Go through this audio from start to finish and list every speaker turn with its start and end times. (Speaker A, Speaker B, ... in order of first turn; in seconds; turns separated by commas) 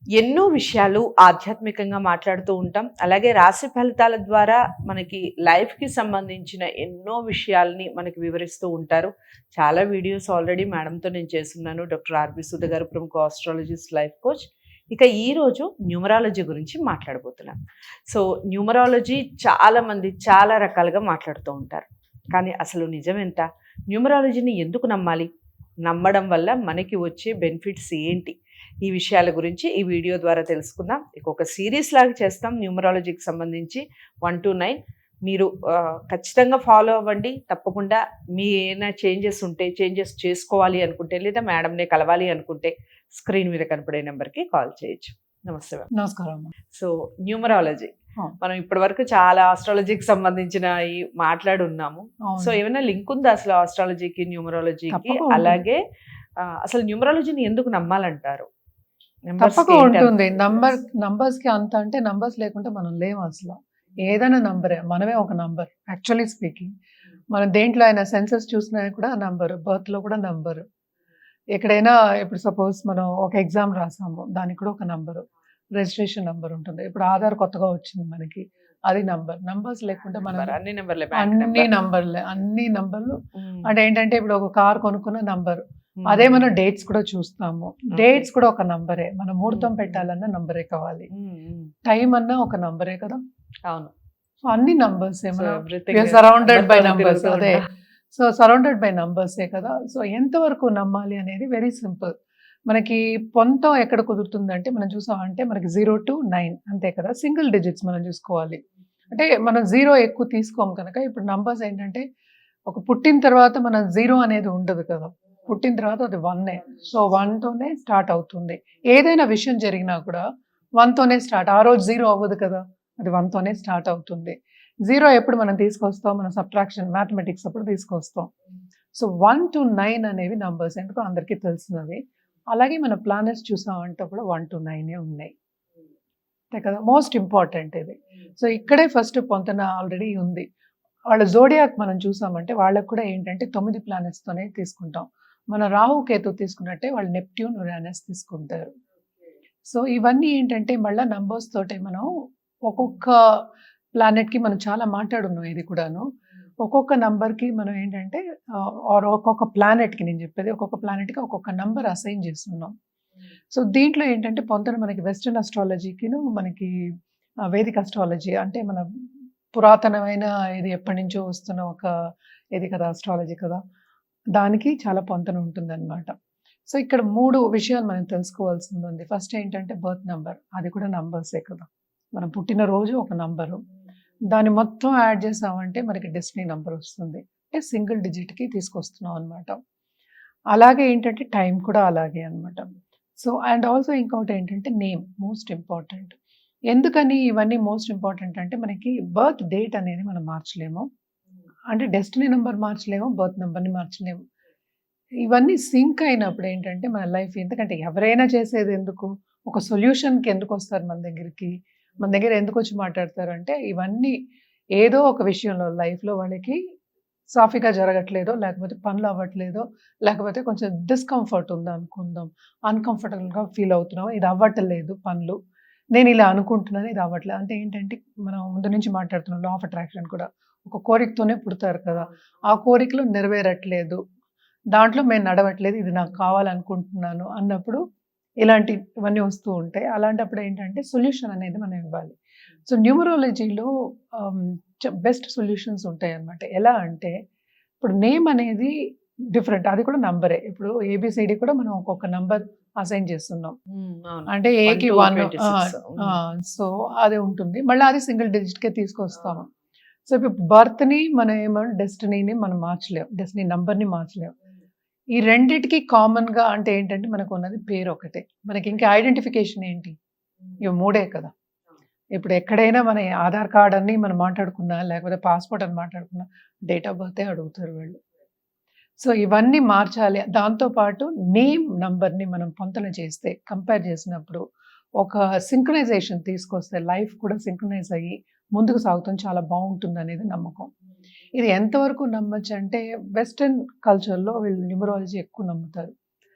Speaker A: 0.1-17.6, Speaker A: 18.1-25.3, Speaker A: 25.8-45.9, Speaker B: 45.9-46.5, Speaker A: 46.7-55.8, Speaker B: 52.2-52.6, Speaker B: 54.9-55.6, Speaker A: 56.4-58.5, Speaker A: 59.3-60.7, Speaker B: 59.4-66.7, Speaker B: 67.3-70.6, Speaker B: 71.5-80.6, Speaker A: 80.2-81.7, Speaker B: 81.2-91.1, Speaker A: 83.4-83.7, Speaker A: 86.0-86.5, Speaker A: 87.9-88.3, Speaker A: 89.5-90.0, Speaker A: 91.1-91.7, Speaker B: 91.8-93.2, Speaker B: 94.5-97.6, Speaker A: 95.3-97.7, Speaker B: 98.1-102.1, Speaker B: 102.7-112.0, Speaker B: 112.7-120.2, Speaker B: 120.8-128.3, Speaker B: 128.9-132.0, Speaker B: 132.5-135.3, Speaker B: 136.5-140.4, Speaker B: 141.1-148.7, Speaker B: 149.7-152.1, Speaker B: 152.7-153.2, Speaker B: 154.0-156.1, Speaker B: 156.6-162.7, Speaker B: 163.5-166.7, Speaker B: 167.5-168.8, Speaker B: 169.5-171.9, Speaker B: 172.6-173.6, Speaker B: 174.3-176.1, Speaker B: 176.7-183.6, Speaker B: 184.3-189.6, Speaker B: 190.5-192.7, Speaker B: 193.2-196.2, Speaker B: 196.7-200.9, Speaker B: 201.7-204.2, Speaker B: 205.3-214.2, Speaker B: 214.8-216.6, Speaker B: 217.3-225.4, Speaker B: 225.9-234.0, Speaker B: 234.7-237.8, Speaker B: 238.4-242.2, Speaker B: 242.7-247.1, Speaker B: 247.8-248.7, Speaker B: 249.3-253.6, Speaker A: 253.7-256.2, Speaker B: 254.3-259.5, Speaker B: 260.1-264.3, Speaker B: 265.1-269.9, Speaker B: 270.6-271.3, Speaker B: 272.1-278.0, Speaker B: 279.0-284.4, Speaker B: 285.0-290.7, Speaker B: 291.4-295.9